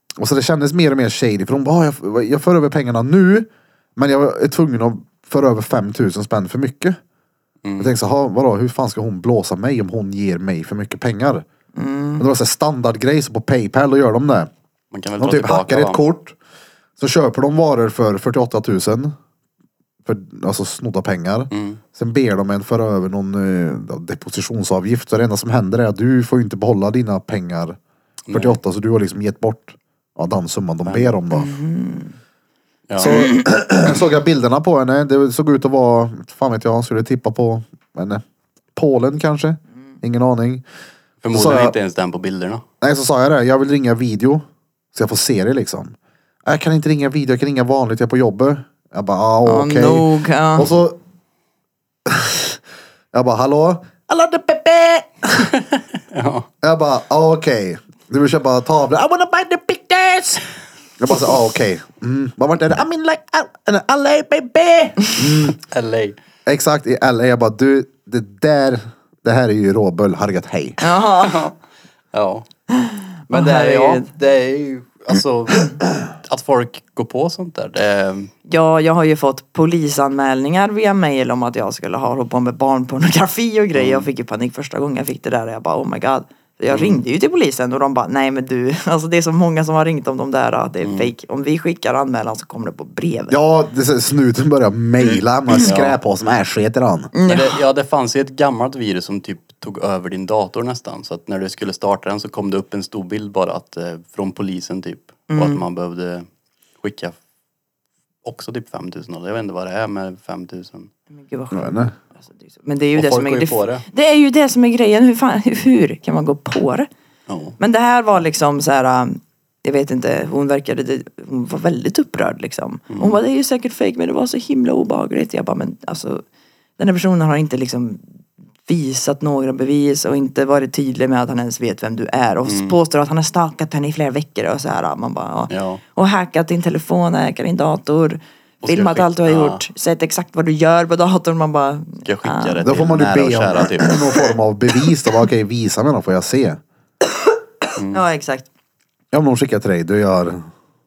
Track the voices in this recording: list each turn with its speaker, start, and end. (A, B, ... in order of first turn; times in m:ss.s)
0:00.2-0:07.0 A
0:07.6-0:07.9 B
0:07.8-0:11.4 A
0:11.7-0:12.2 C
0:12.2-0:14.5 A
0:14.9-0:16.0 B
0:15.2-0:16.4 A
0:17.0-0:19.1 A
0:20.0-0:27.8 A
0:21.5-0:21.8 B
0:28.3-0:28.6 B
0:28.3-0:31.5 A
0:30.8-0:31.2 B
0:31.3-0:32.1 C
0:32.9-0:33.2 B
0:33.0-0:38.2 A
0:38.7-0:40.6 A
0:41.2-0:42.6 B
0:41.3-0:41.7 A
0:42.8-0:51.0 A
0:49.4-0:50.7 C
0:52.1-0:52.6 A
0:53.1-0:55.5 A
0:55.5-0:56.5 B
0:56.6-1:00.4 A
1:01.0-1:05.6 A
1:05.6-1:06.2 B
1:06.4-1:10.8 A
1:10.8-1:11.4 C
1:11.2-1:11.6 B
1:12.1-1:12.4 B
1:12.7-1:14.1 C
1:13.3-1:18.3 B
1:18.5-1:33.4 C
1:23.7-1:24.1 B
1:26.7-1:27.0 B
1:30.8-1:31.1 B
1:33.3-1:37.1 A
1:35.6-1:35.9 B
1:37.1-1:37.6 C
1:37.2-1:46.2 B
1:45.3-1:45.6 C
1:46.8-1:47.2 B
1:48.2-1:50.9 B
1:51.1-1:56.9 C
1:51.5-1:51.9 A
1:52.9-1:53.8 B
1:57.3-1:57.6 B
1:57.6-2:06.2 C
2:02.9-2:03.2 B
2:06.8-2:08.0 C
2:08.6-2:22.7 C
2:12.4-2:12.8 B
2:15.5-2:15.8 B
2:18.6-2:19.6 B
2:22.0-2:24.0 B
2:22.6-2:26.6 A
2:27.8-2:28.0 B
2:27.9-2:28.4 C
2:29.1-2:30.5 A